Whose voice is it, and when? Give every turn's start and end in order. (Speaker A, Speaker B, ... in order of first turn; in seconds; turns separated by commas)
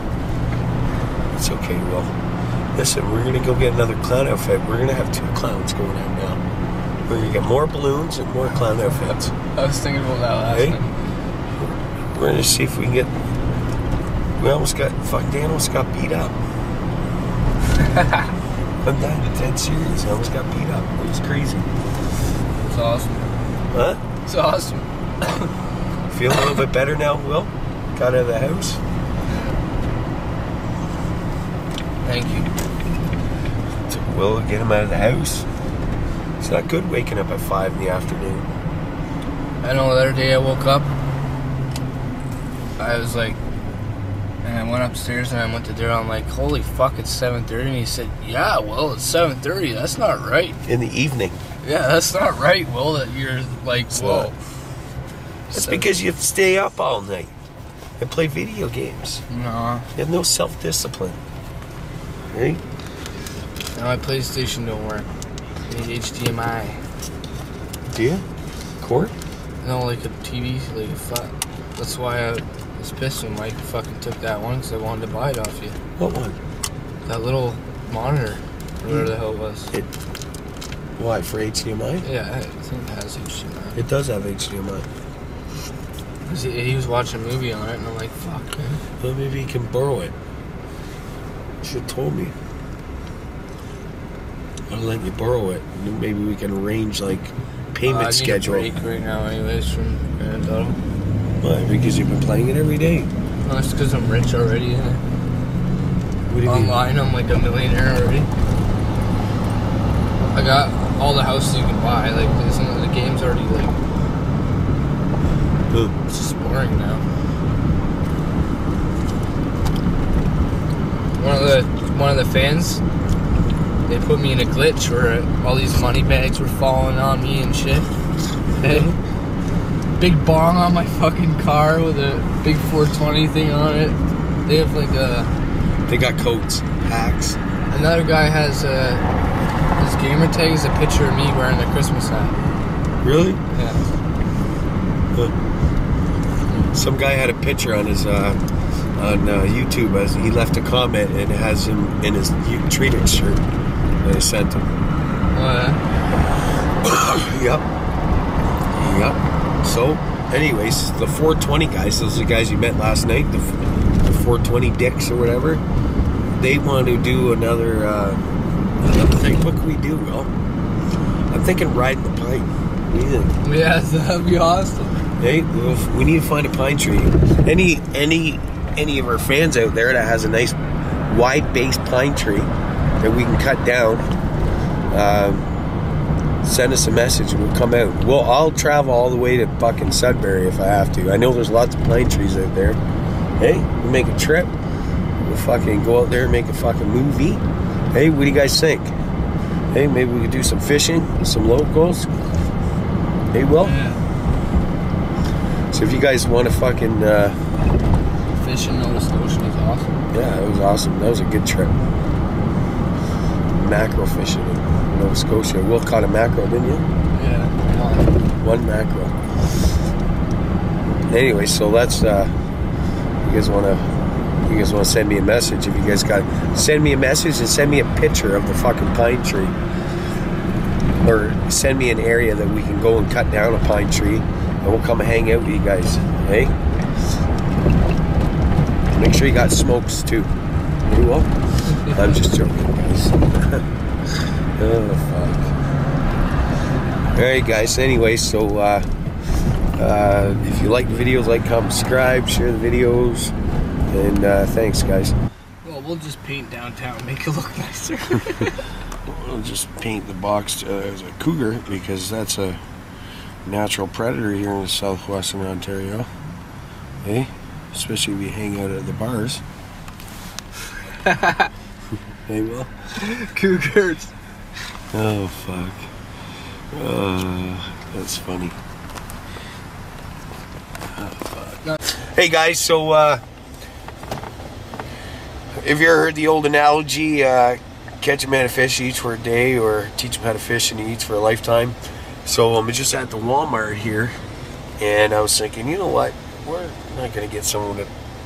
Speaker A: 1.3-2.2, Speaker A: 2.7-6.4, Speaker A: 7.0-9.3, Speaker B: 9.5-11.0, Speaker A: 10.5-10.8, Speaker A: 11.6-13.1, Speaker A: 14.4-16.4, Speaker B: 17.8-18.3, Speaker A: 18.8-21.7, Speaker B: 22.6-23.4, Speaker A: 23.7-24.0, Speaker B: 24.2-25.5, Speaker A: 26.1-28.8, Speaker B: 29.2-29.6, Speaker B: 32.0-32.5, Speaker A: 33.9-35.5, Speaker A: 36.4-38.5, Speaker B: 39.6-40.9, Speaker B: 42.8-43.4, Speaker B: 44.4-50.6, Speaker A: 50.6-51.4, Speaker B: 51.6-54.4, Speaker A: 53.9-54.3, Speaker A: 55.5-57.3, Speaker B: 55.5-55.9, Speaker A: 58.0-59.2, Speaker B: 59.3-59.9, Speaker A: 59.9-61.2, Speaker A: 62.3-62.6, Speaker B: 63.7-65.1, Speaker B: 65.7-66.8, Speaker A: 67.9-68.2, Speaker A: 68.8-69.1, Speaker B: 69.6-75.8, Speaker A: 76.0-76.4, Speaker B: 77.0-79.7, Speaker A: 81.0-82.0, Speaker B: 82.0-83.8, Speaker A: 83.8-84.9, Speaker B: 86.2-88.8, Speaker A: 89.0-90.1, Speaker A: 91.6-92.3, Speaker A: 94.7-98.7, Speaker B: 97.8-100.8, Speaker A: 101.4-103.1, Speaker B: 103.4-105.0, Speaker A: 106.3-106.8, Speaker B: 106.4-108.3, Speaker B: 110.3-113.8, Speaker B: 116.0-117.0, Speaker B: 121.2-122.8, Speaker B: 123.9-127.9, Speaker B: 128.6-128.9, Speaker A: 128.6-129.0, Speaker B: 130.0-135.3, Speaker A: 135.9-137.4, Speaker B: 137.7-139.0, Speaker B: 139.8-142.4, Speaker A: 143.0-143.4, Speaker B: 143.5-143.8, Speaker A: 146.7-148.4, Speaker A: 148.9-153.4, Speaker A: 154.0-154.8, Speaker B: 155.3-155.8, Speaker A: 156.8-157.7, Speaker A: 158.7-165.6, Speaker A: 166.3-170.3, Speaker A: 171.3-173.4, Speaker B: 173.4-175.1, Speaker A: 175.2-184.1, Speaker A: 184.9-185.5, Speaker A: 186.4-192.8, Speaker A: 193.4-194.5, Speaker A: 195.2-198.9, Speaker A: 199.7-202.1, Speaker A: 203.3-203.8, Speaker B: 203.6-204.0, Speaker A: 205.7-207.4, Speaker B: 208.3-210.0, Speaker A: 210.1-211.9, Speaker A: 213.5-216.9, Speaker B: 217.1-218.1, Speaker A: 218.4-219.3, Speaker A: 221.1-222.3, Speaker A: 223.2-229.6, Speaker A: 231.0-236.6, Speaker A: 238.9-245.5, Speaker A: 247.1-248.9, Speaker A: 249.7-253.3, Speaker A: 253.9-255.2, Speaker B: 255.6-258.7, Speaker A: 259.0-262.6, Speaker A: 263.4-266.1, Speaker A: 267.0-269.4, Speaker B: 271.0-271.5, Speaker A: 272.2-272.9, Speaker B: 272.9-274.1, Speaker A: 274.9-275.9, Speaker A: 276.7-278.6, Speaker A: 280.8-283.2, Speaker A: 285.5-294.2, Speaker A: 294.8-297.9